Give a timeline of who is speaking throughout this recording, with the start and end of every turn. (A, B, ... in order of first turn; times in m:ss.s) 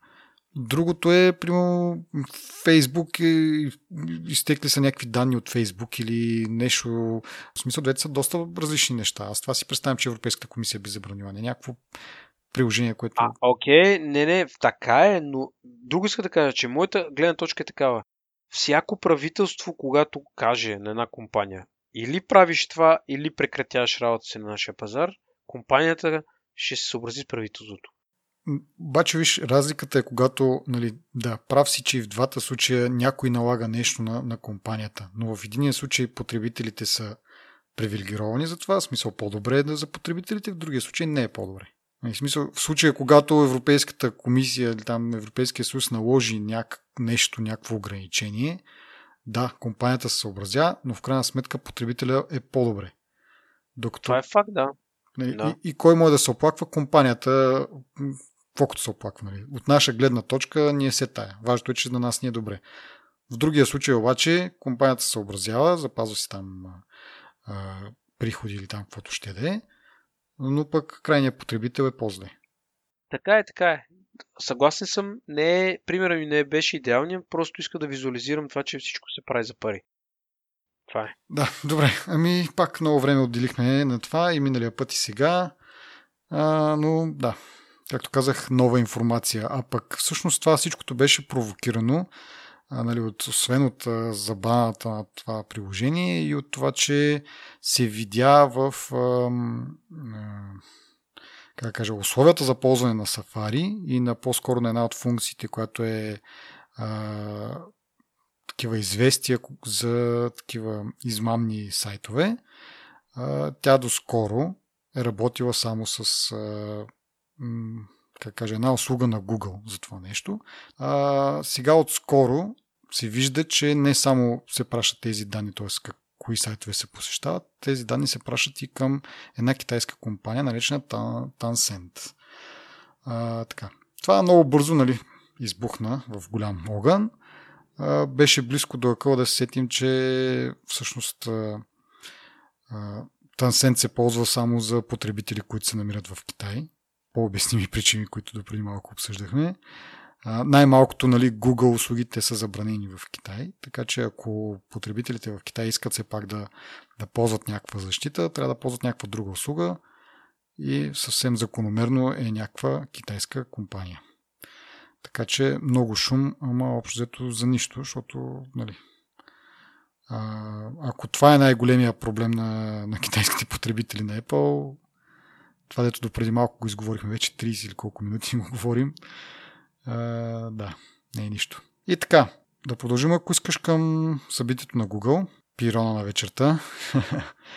0:00.6-0:11.8 A
0:12.5-0:13.3 A
0:13.2-0:27.9 B
0:28.4-0:37.2 A
0:37.7-0:48.6 A
0:49.2-0:52.9 A
0:53.8-0:54.2 A
0:54.0-0:54.7 B
0:55.2-1:02.6 A
0:55.3-0:55.6 B
1:03.3-1:06.8 A
1:07.4-1:09.6 A
1:10.4-1:12.3 A
1:13.1-1:19.8 B
1:20.9-1:21.1 B
1:21.3-1:25.5 A
1:26.3-1:27.4 A
1:27.9-1:32.1 A
1:32.7-1:40.6 A
1:41.6-1:46.2 A
1:46.8-1:47.7 A
1:48.5-1:52.4 A
1:53.1-2:12.2 A
2:13.0-2:17.1 A
2:17.8-2:21.6 A
2:22.7-2:29.6 A
2:30.2-2:39.8 A
2:40.6-2:44.0 A
2:45.0-2:48.8 A
2:50.1-2:54.8 A
2:55.7-2:58.9 A
2:59.8-3:07.3 A